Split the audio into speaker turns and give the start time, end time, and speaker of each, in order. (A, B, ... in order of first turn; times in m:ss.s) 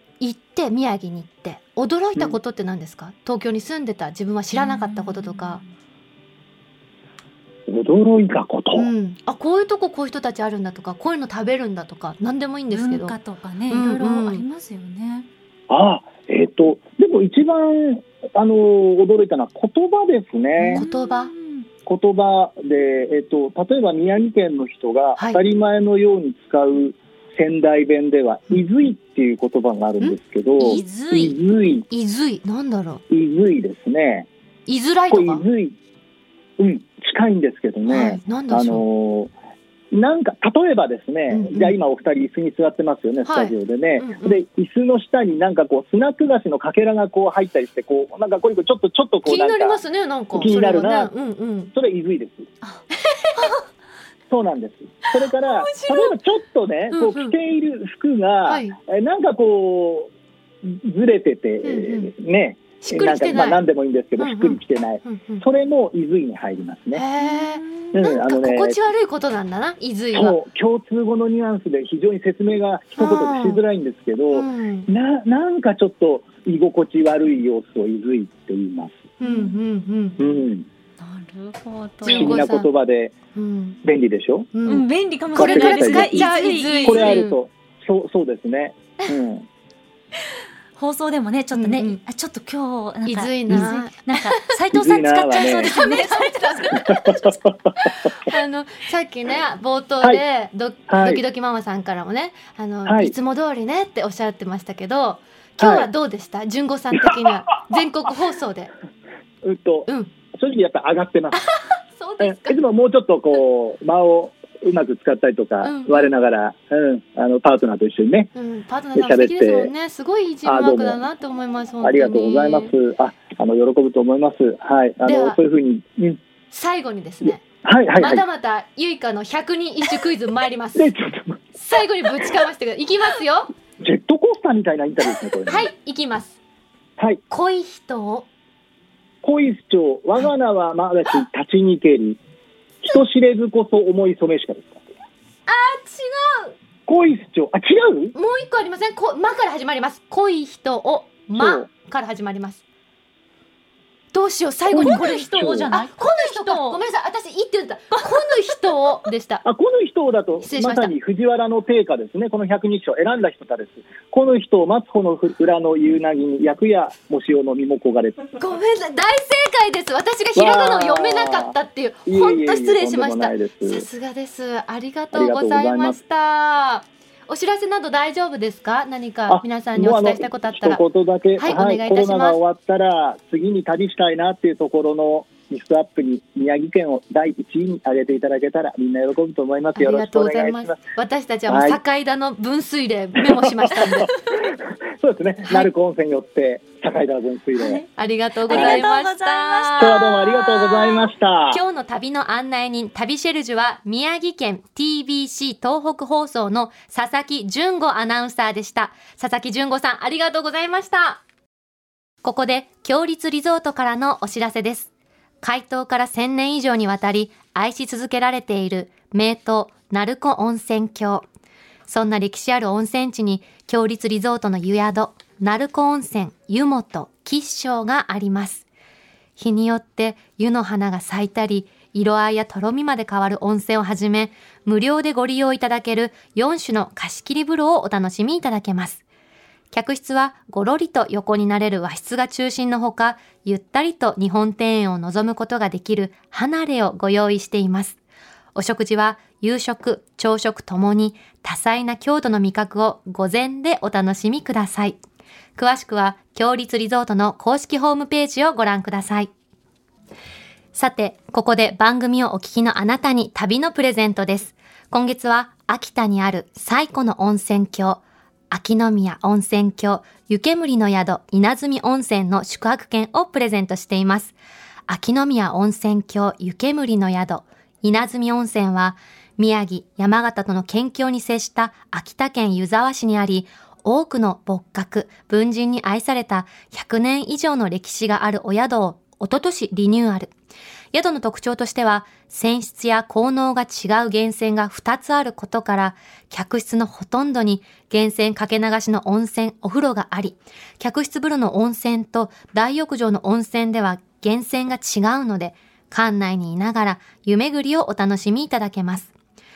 0:00.2-0:05.6 A
0:04.5-0:05.6 B
0:07.7-0:08.9 C
0:08.8-0:13.2 A
0:12.7-0:15.3 B
0:13.7-0:14.4 A
0:15.7-0:20.8 C
0:20.6-0:21.7 B
0:20.7-0:21.3 A
0:21.9-0:31.9 C
0:30.6-0:31.4 B
0:31.9-0:33.0 A
0:33.1-0:34.3 C
0:34.7-0:35.4 A
0:35.1-0:35.8 C
0:36.6-0:39.3 C
0:37.9-0:38.8 A
0:39.9-0:49.8 C
0:41.3-0:41.8 A
0:43.2-0:44.4 A
0:49.2-0:51.7 A
0:50.3-0:51.1 C
0:51.7-0:52.5 C
0:53.1-0:53.6 A
0:54.3-1:00.1 C
0:55.2-0:56.2 A
0:56.9-0:57.4 A
0:58.5-0:58.8 A
1:00.6-1:07.1 C
1:01.6-1:02.1 A
1:02.8-1:03.6 A
1:04.2-1:05.4 A
1:06.9-1:10.4 A
1:07.2-1:07.8 B
1:07.9-1:08.8 C
1:10.1-1:19.1 C
1:13.0-1:13.6 A
1:14.3-1:14.9 A
1:19.2-1:20.2 A
1:19.2-1:19.6 B
1:20.2-1:20.7 C
1:21.0-1:22.4 B
1:22.0-1:22.7 A
1:22.0-1:23.2 C
1:23.3-1:23.8 A
1:23.8-1:24.5 C
1:24.5-1:27.4 A
1:24.7-1:27.2 B
1:25.3-1:29.5 C
1:30.8-1:37.4 B
1:31.5-1:32.0 A
1:33.1-1:34.6 A
1:34.7-1:35.8 C
1:35.3-1:37.0 A
1:36.8-1:38.1 C
1:37.8-1:48.7 A
1:40.9-1:41.2 C
1:42.9-1:43.2 C
1:45.6-1:45.9 C
1:49.4-1:51.4 C
1:51.3-1:52.6 A
1:52.2-1:58.3 C
1:55.6-1:56.1 A
1:58.4-2:02.7 A
1:59.0-1:59.7 C
2:00.4-2:01.0 C
2:01.8-2:06.2 C
2:05.0-2:05.4 A
2:06.5-2:07.4 A
2:07.4-2:08.2 C
2:08.0-2:10.9 A
2:10.8-2:11.4 C
2:11.6-2:13.5 A
2:13.8-2:15.7 C
2:15.4-2:16.4 A
2:17.3-2:18.3 A
2:19.2-2:22.2 C
2:22.8-2:24.8 C
2:25.5-2:26.5 A
2:26.9-2:28.1 C
2:28.1-2:32.6 A
2:31.4-2:31.7 C
2:34.1-2:39.4 A
2:34.7-2:35.7 C
2:34.7-2:36.8 B
2:37.9-2:38.4 B
2:39.4-2:48.4 C
2:40.4-2:40.9 A
2:48.4-3:00.8 A
2:50.4-2:53.9 C
2:55.1-2:56.0 C
2:59.3-3:10.8 C
3:01.4-3:02.4 A
3:09.8-3:14.1 A
3:11.5-3:11.8 C
3:13.2-3:17.8 C
3:17.6-3:17.9 B
3:18.0-3:31.2 A
3:18.4-3:20.5 B
3:18.5-3:18.9 C
3:19.8-3:21.6 C
3:32.2-3:34.9 A
3:35.4-3:41.3 A
3:41.9-3:48.7 A
3:49.4-3:59.0 A
3:59.7-4:08.0 A
4:08.6-4:15.0 A
4:15.6-4:19.3 A
4:20.7-4:34.4 A
4:34.9-4:50.3 A
4:50.9-5:09.1 A